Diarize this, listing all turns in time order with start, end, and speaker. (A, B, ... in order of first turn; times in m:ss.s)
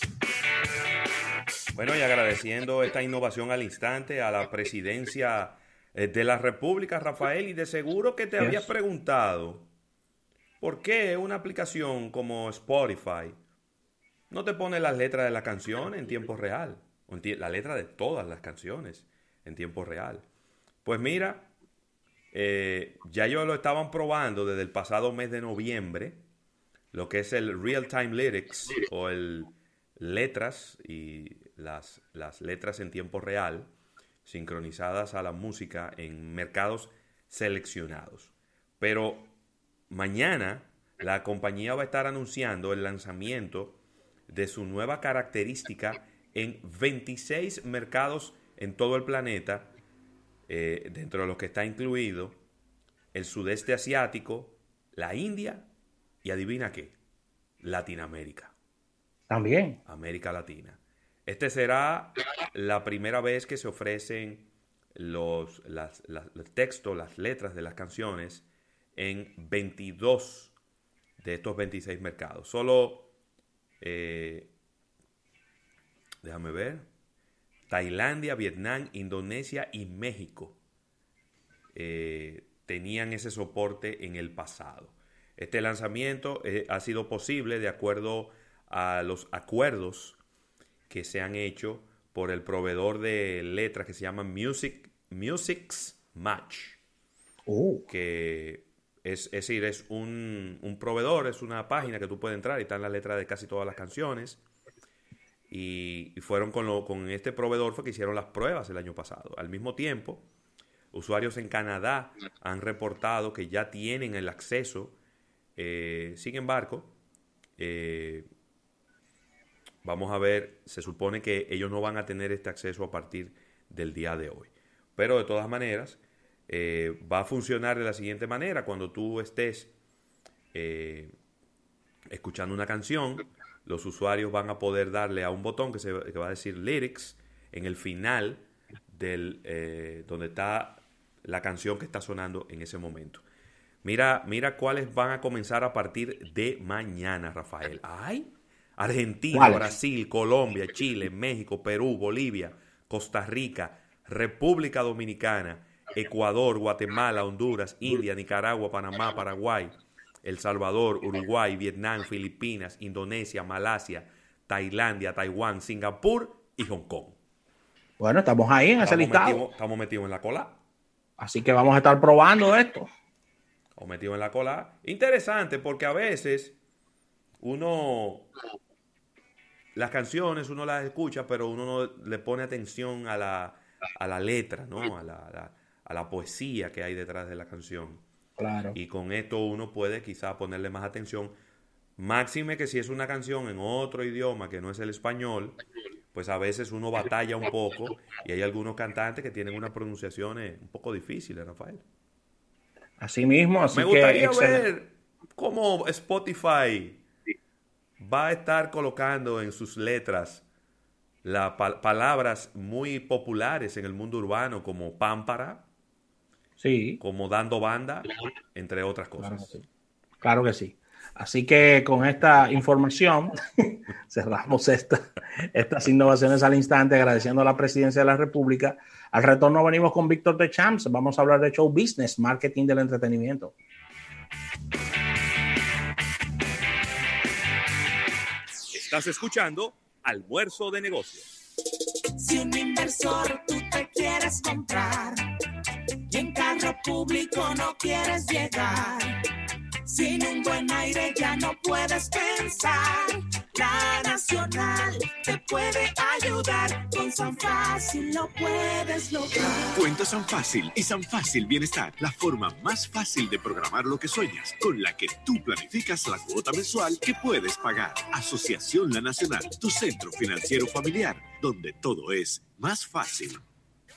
0:01.7-0:09.7 A
0:08.4-0:08.7 B
0:10.6-0:13.3 A
0:14.3-0:20.2 A
0:20.8-0:21.5 A
0:22.3-0:26.2 A
0:26.9-0:33.7 A
0:34.2-0:39.3 A
0:39.9-0:49.7 A
0:50.5-0:52.4 A
0:53.1-0:55.7 A
0:56.2-0:57.0 A
0:57.6-0:58.5 A
0:59.3-0:59.8 B
0:59.8-1:10.5 A
1:11.2-1:13.1 A
1:13.8-1:14.5 A
1:16.2-1:16.9 A
1:17.7-1:20.6 A
1:21.7-1:30.2 A
1:30.9-1:36.8 A
1:37.5-1:37.8 B
1:37.9-1:44.4 A
1:45.5-1:50.3 A
1:50.9-1:55.0 A
1:55.6-1:56.9 A
1:57.6-1:58.3 A
1:59.8-2:09.7 A
2:10.5-2:11.1 A
2:12.1-2:23.2 A
2:23.8-2:47.2 A
2:29.3-2:29.7 B
2:48.0-2:49.4 B
2:48.8-2:50.6 A
2:51.2-2:52.9 B
2:53.8-2:56.6 A
2:57.4-2:58.3 A
2:59.8-3:08.0 A
3:08.4-3:08.8 B
3:08.7-3:11.3 A
3:12.0-3:15.6 A
3:16.1-3:21.8 A
3:23.0-3:24.6 B
3:23.7-3:27.0 A
3:28.0-3:30.4 A
3:31.2-3:35.7 A
3:36.6-3:37.0 B
3:37.0-3:39.5 A
3:39.2-3:39.6 B
3:40.2-3:53.5 B
3:58.7-4:01.3 A
4:02.2-4:05.2 C
4:06.1-4:09.2 C
4:09.8-4:19.8 C
4:19.8-4:33.4 D